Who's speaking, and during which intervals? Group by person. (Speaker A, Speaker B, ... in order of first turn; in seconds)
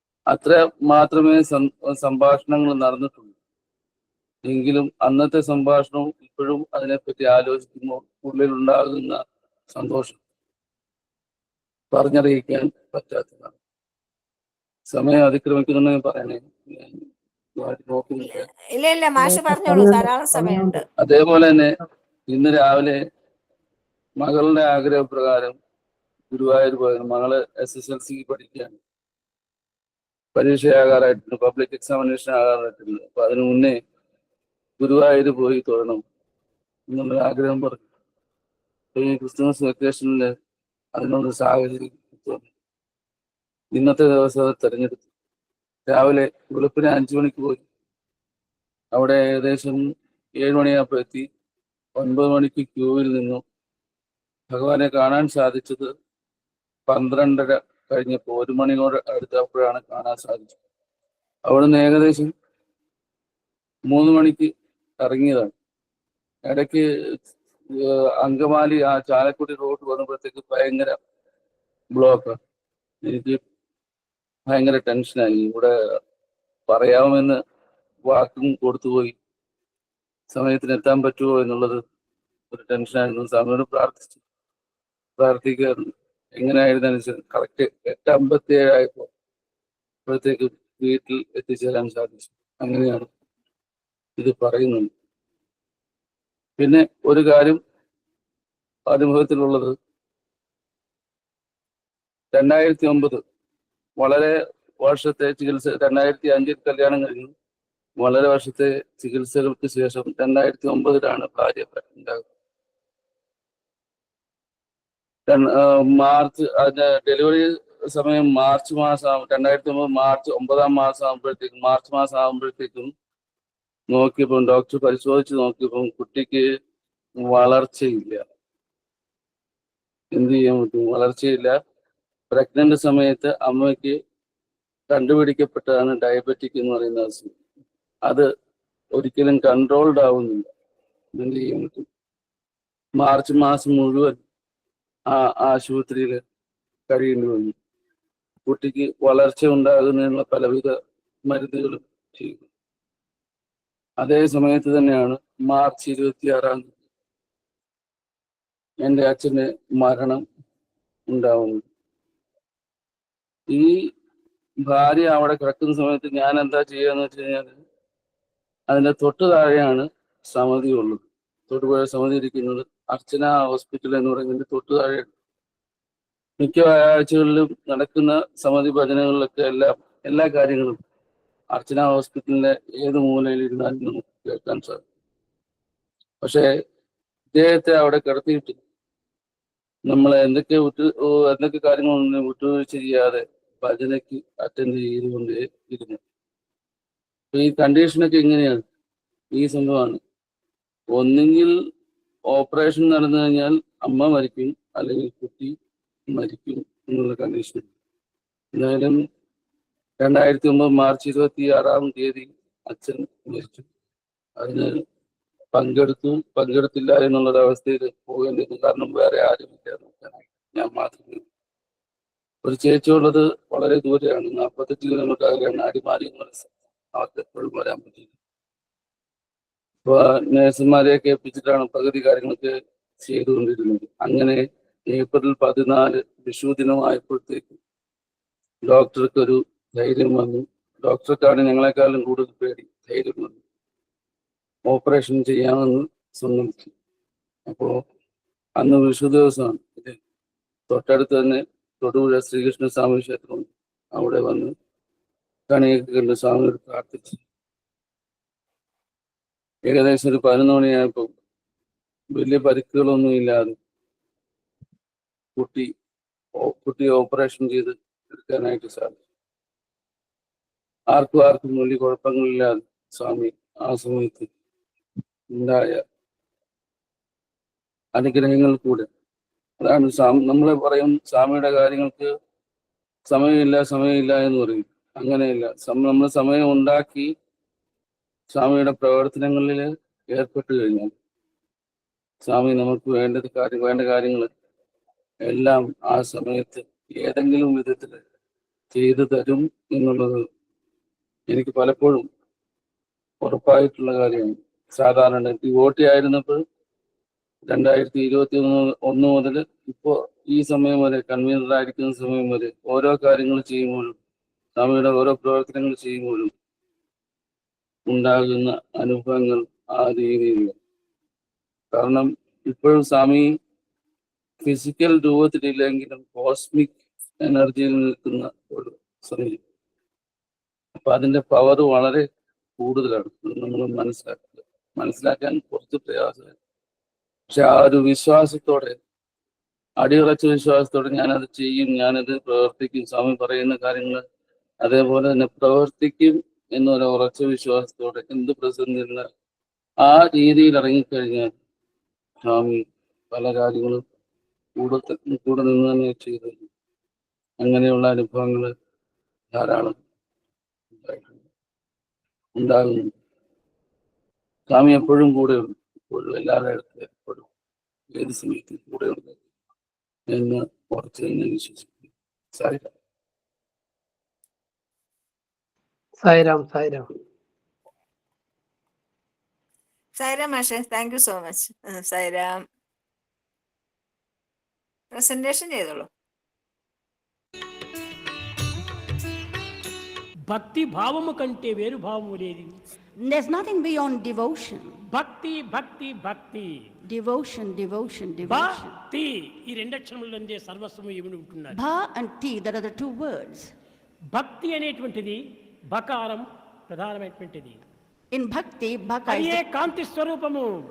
Speaker A: 0.3-3.4, 4.5-10.2, 11.9-13.6, 14.9-18.5, 21.0-21.7, 22.3-23.0, 24.2-25.6, 26.3-28.8, 30.4-33.8, 34.8-36.0, 36.9-37.8, 38.9-40.3, 41.0-42.5, 43.7-45.0, 45.9-47.6, 48.9-49.8, 50.4-51.3, 52.0-53.4, 54.5-55.9, 56.9-60.6, 61.4-62.3, 63.9-65.5, 66.5-66.9, 67.7-71.0, 71.9-72.4, 73.0-73.4, 74.5-75.7, 76.7-77.4, 78.1-79.2, 80.3-81.8, 82.5-84.2, 85.2-89.1, 90.0-93.1, 94.2-94.9, 96.6-97.6, 98.9-99.8, 102.3-103.2, 104.0-107.3, 108.0-112.2, 115.3-122.9, 123.9-126.4, 127.2-128.2, 130.1-131.6, 132.3-134.0, 134.9-137.3, 139.0-140.5, 141.2-141.9, 143.0-144.2, 145.1-146.2, 146.9-147.5, 148.5-152.5, 154.0-156.8, 158.8-160.2, 161.1-161.6, 163.5-163.9, 164.6-167.5, 168.7-175.1, 176.4-180.8, 181.5-184.8, 186.2-186.5, 187.3-188.6, 189.9-196.0, 197.3-198.6, 199.3-200.0, 200.9-201.6, 202.3-205.5, 206.1-207.7, 208.5-209.0, 210.0-213.7, 214.4-214.8, 215.5-221.2, 222.4-228.1, 229.8-237.6, 238.7-243.4, 244.7-246.7, 247.5-247.8, 248.6-250.0, 250.7-254.5, 255.5-257.2, 259.7-261.1, 262.1-263.6, 265.4-265.7, 266.4-269.0, 270.9-274.3, 275.3-275.8, 277.9-278.9, 279.6-282.1, 283.1-287.1, 288.3-290.9, 292.2-294.3, 295.2-298.0, 298.7-300.2, 301.3-302.1, 303.2-306.4, 307.5-314.0, 314.6-316.3, 317.9-320.6, 321.7-323.3, 324.4-329.4, 330.7-332.1, 332.6-336.4, 337.3-338.8, 339.8-344.0, 344.6-349.1, 349.8-351.3, 352.2-353.8, 354.6-356.5, 357.4-358.5, 359.3-359.8, 360.7-361.2, 362.4-362.9, 364.5-367.3, 367.9-369.2, 370.1-371.7, 372.3-372.7
Speaker B: 18.8-20.8, 380.0-382.4, 384.9-385.9
Speaker C: 19.2-20.8, 376.0-376.9
Speaker D: 390.3-392.6, 394.9-396.6, 398.2-401.6, 404.1-405.2, 405.7-407.6, 409.1-410.5
Speaker E: 393.0-394.8, 396.9-398.7, 401.5-403.5, 408.1-409.4